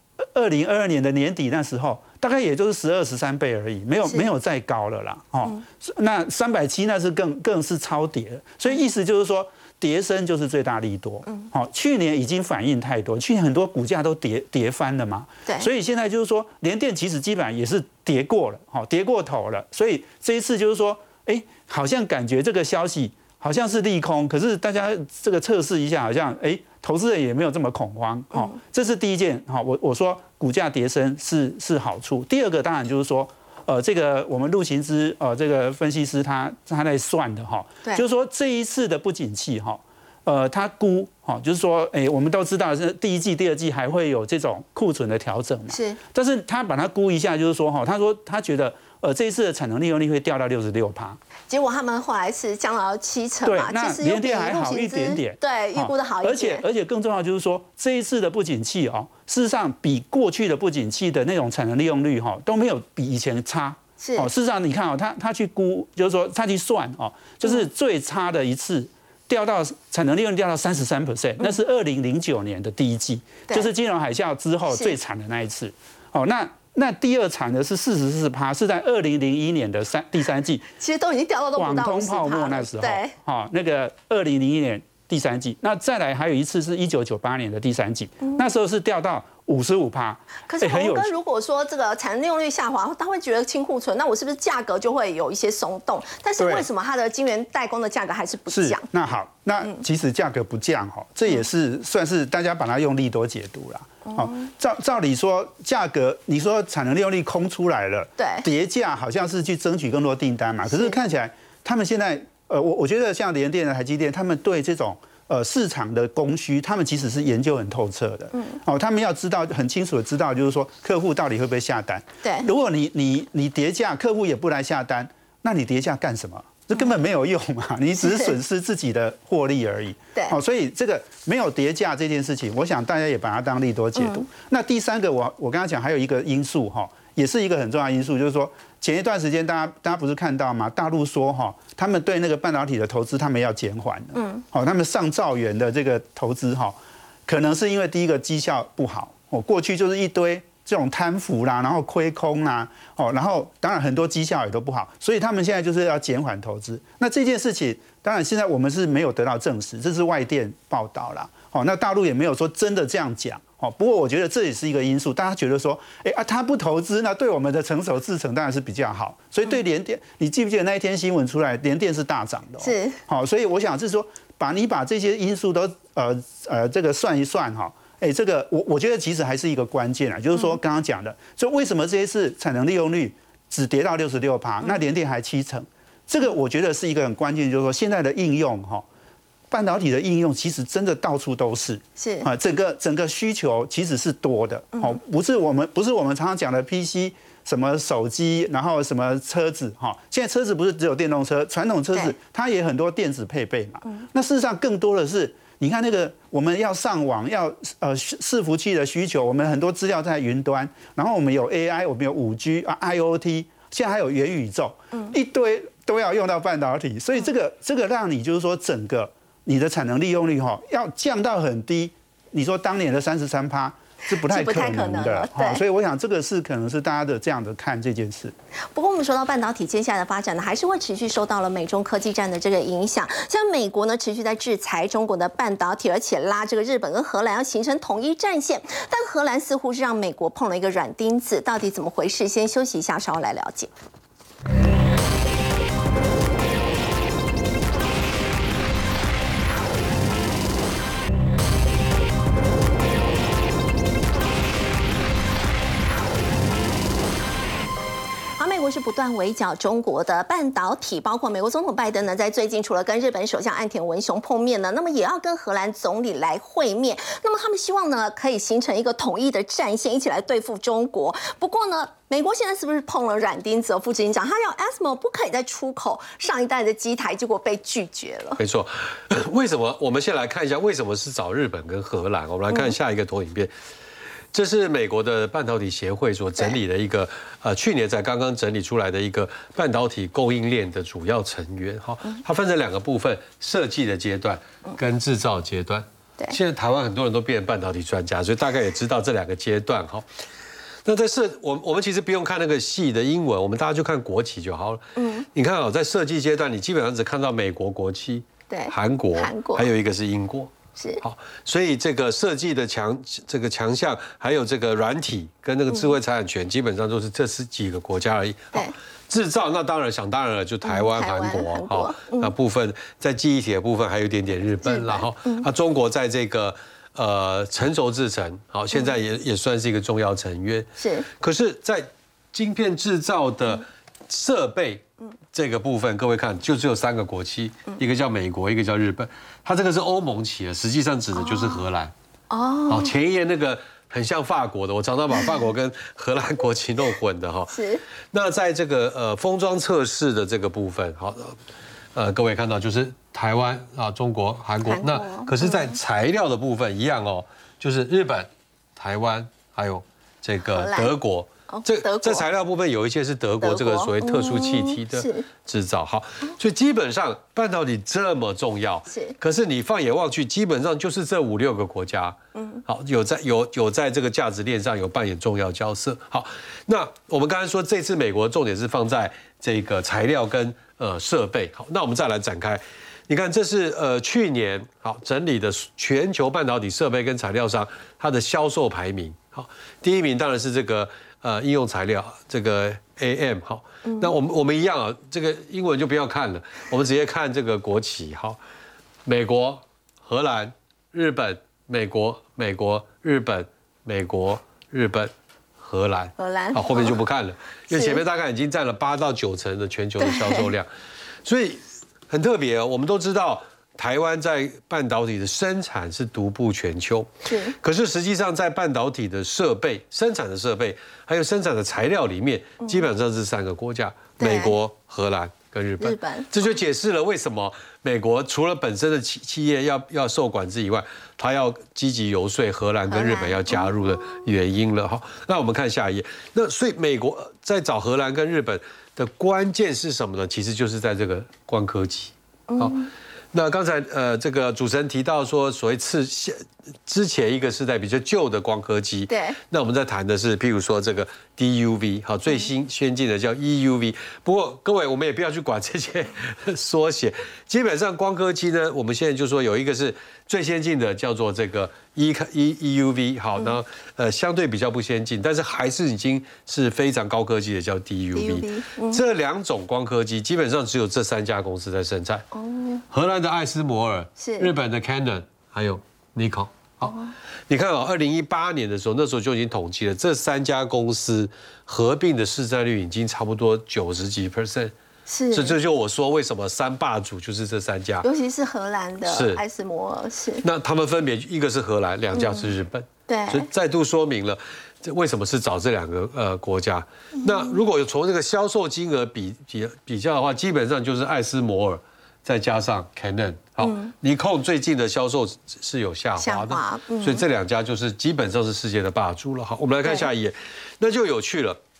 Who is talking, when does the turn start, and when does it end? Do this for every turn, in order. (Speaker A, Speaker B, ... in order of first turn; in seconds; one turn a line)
Speaker A: 0.3-51.2
Speaker B: 45.7-46.0
Speaker B: 51.5-56.6
Speaker A: 53.4-80.7
Speaker B: 64.0-64.3
Speaker B: 74.7-75.0
Speaker B: 80.8-83.1
Speaker A: 81.5-91.1
Speaker B: 90.5-98.8
Speaker A: 96.4-96.7
Speaker A: 98.5-188.8
Speaker B: 104.0-104.5
Speaker B: 108.2-108.5
Speaker B: 110.7-111.0
Speaker B: 128.0-128.3
Speaker B: 133.9-134.2
Speaker B: 144.2-144.4
Speaker B: 172.6-173.0
Speaker A: 189.5-228.3
Speaker B: 192.0-192.3
Speaker B: 224.1-225.6
Speaker B: 228.7-243.7
Speaker B: 258.4-278.4
Speaker C: 278.4-283.5
Speaker B: 282.5-282.7
Speaker C: 284.3-300.1
Speaker C: 300.8-341.9
Speaker B: 305.0-305.2
Speaker B: 308.5-309.7
Speaker B: 310.8-311.0
Speaker B: 315.7-315.9
Speaker B: 320.6-322.3
Speaker B: 324.6-325.4
Speaker B: 330.8-331.1
Speaker B: 341.1-341.6
Speaker B: 342.3-342.9
Speaker C: 342.7-347.6
Speaker B: 347.5-347.8
Speaker C: 348.1-351.4
Speaker C: 351.9-398.4
Speaker B: 354.6-355.8
Speaker B: 360.5-360.9
Speaker B: 361.5-362.2
Speaker B: 363.4-365.3
Speaker B: 368.9-369.1
Speaker B: 372.3-372.6
Speaker B: 393.9-394.1
Speaker C: 399.0-410.7
Speaker B: 406.2-407.0
Speaker B: 407.7-408.0
Speaker B: 410.0-410.5
Speaker C: 411.2-442.8
Speaker B: 417.3-417.6
Speaker B: 424.2-424.6
Speaker B: 425.8-426.3
Speaker B: 432.9-433.7
Speaker B: 442.5-442.9
Speaker C: 443.3-472.3
Speaker B: 449.1-449.4
Speaker B: 468.1-469.0
Speaker B: 472.3-472.8
Speaker C: 472.9-484.7
Speaker B: 474.2-474.5
Speaker B: 485.1-485.6
Speaker C: 485.3-488.0
Speaker B: 488.0-490.4
Speaker C: 489.1-489.4
Speaker C: 490.4-511.6
Speaker B: 492.1-492.5
Speaker B: 493.1-493.5
Speaker B: 497.2-497.6
Speaker B: 503.6-503.9
Speaker B: 506.2-507.2